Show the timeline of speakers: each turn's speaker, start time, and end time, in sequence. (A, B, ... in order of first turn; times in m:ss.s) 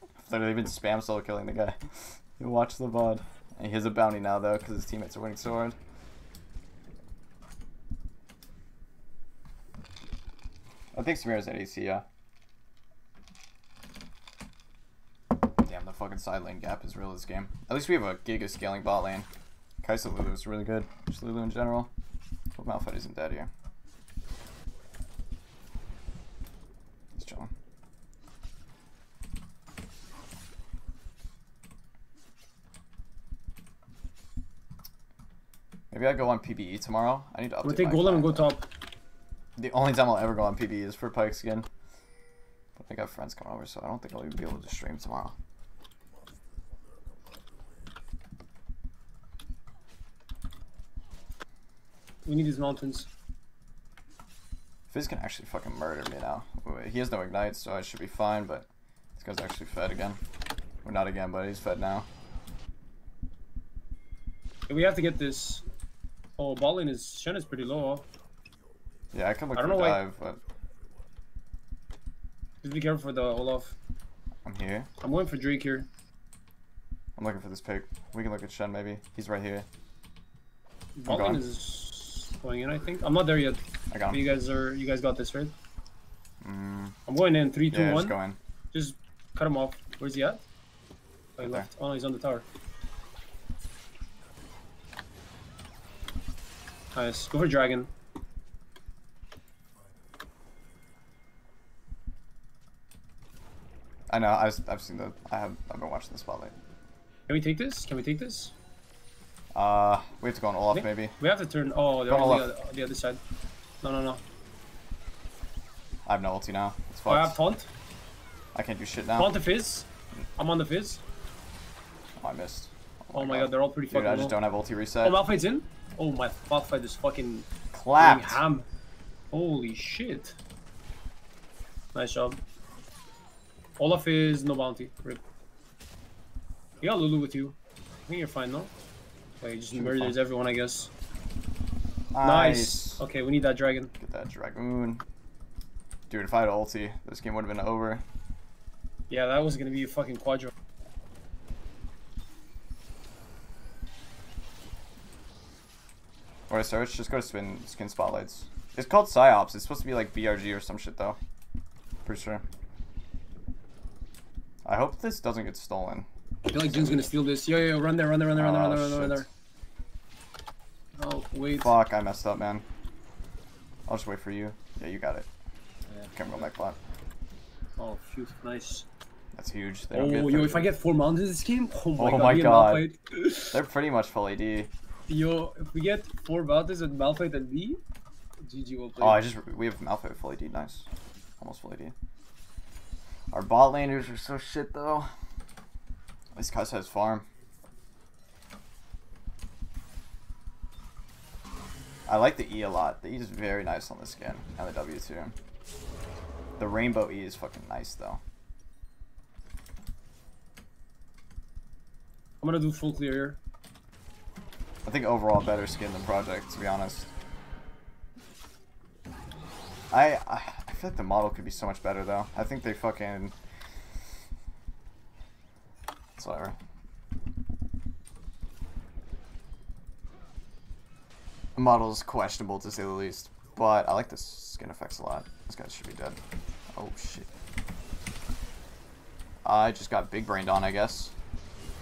0:00.2-0:05.8 A
0:10.9-0:12.0 A
0:15.6-0:19.3 A
0:19.8-0:21.9 A
0:22.6-0:23.5 A
0:27.1-0:27.5 A
0:35.9-0:38.5 A
0:37.6-0:38.6 B
0:39.6-0:41.7 A
0:42.8-0:45.4 A
0:52.2-0:53.1 B
0:54.9-1:00.2 A
1:00.8-1:02.1 A
1:04.7-1:05.6 B
1:06.4-1:08.0 B
1:09.1-1:10.4 A
1:09.6-1:10.0 B
1:12.6-1:13.8 B
1:14.4-1:14.9 A
1:15.0-1:15.9 B
1:17.2-1:19.7 A
1:21.0-1:25.5 B
1:21.1-1:21.4 A
1:23.9-1:24.2 A
1:26.4-1:27.0 A
1:27.1-1:28.2 B
1:27.7-1:28.4 A
1:28.7-1:30.4 B
1:31.4-1:32.4 B
1:31.4-1:31.7 A
1:36.9-1:37.9 B
1:44.1-1:46.5 A
1:47.3-1:48.5 B
1:49.5-1:51.1 A
1:50.7-1:53.2 B
1:52.1-1:52.5 A
1:53.8-1:54.2 B
1:56.0-1:57.4 A
1:57.1-1:57.7 B
1:58.5-1:59.3 A
1:59.2-2:01.0 B
2:02.2-2:05.2 A
2:03.1-2:04.4 B
2:05.0-2:08.6 B
2:07.7-2:08.4 A
2:09.3-2:10.4 B
2:11.9-2:12.4 B
2:13.8-2:15.2 B
2:16.8-2:17.6 B
2:18.1-2:18.7 B
2:19.4-2:20.9 B
2:19.7-2:20.2 A
2:22.1-2:23.0 A
2:22.2-2:23.9 B
2:24.0-2:25.0 A
2:26.1-2:28.0 A
2:29.1-2:30.5 B
2:36.5-2:41.2 A
2:42.0-2:42.4 A
2:44.6-2:47.1 A
2:46.5-2:49.3 B
2:48.3-2:49.2 A
2:51.0-2:51.7 B
2:51.6-2:52.6 A
2:53.9-2:55.3 A
2:56.0-2:56.8 A
2:57.8-2:58.8 B
2:59.3-3:00.7 A
2:59.9-3:03.6 B
3:02.0-3:02.8 A
3:03.5-3:04.7 A
3:05.1-3:07.8 B
3:08.4-3:09.2 B
3:09.0-3:10.9 A
3:11.4-3:11.9 A
3:13.3-3:15.1 A
3:16.3-3:17.2 A
3:22.1-3:25.3 A
3:26.6-3:28.2 A
3:32.4-3:33.4 B
3:34.8-3:37.1 A
3:39.9-3:43.4 A
3:46.2-3:46.6 A
3:51.6-3:56.2 A
3:56.7-3:57.3 A
3:59.4-4:01.2 A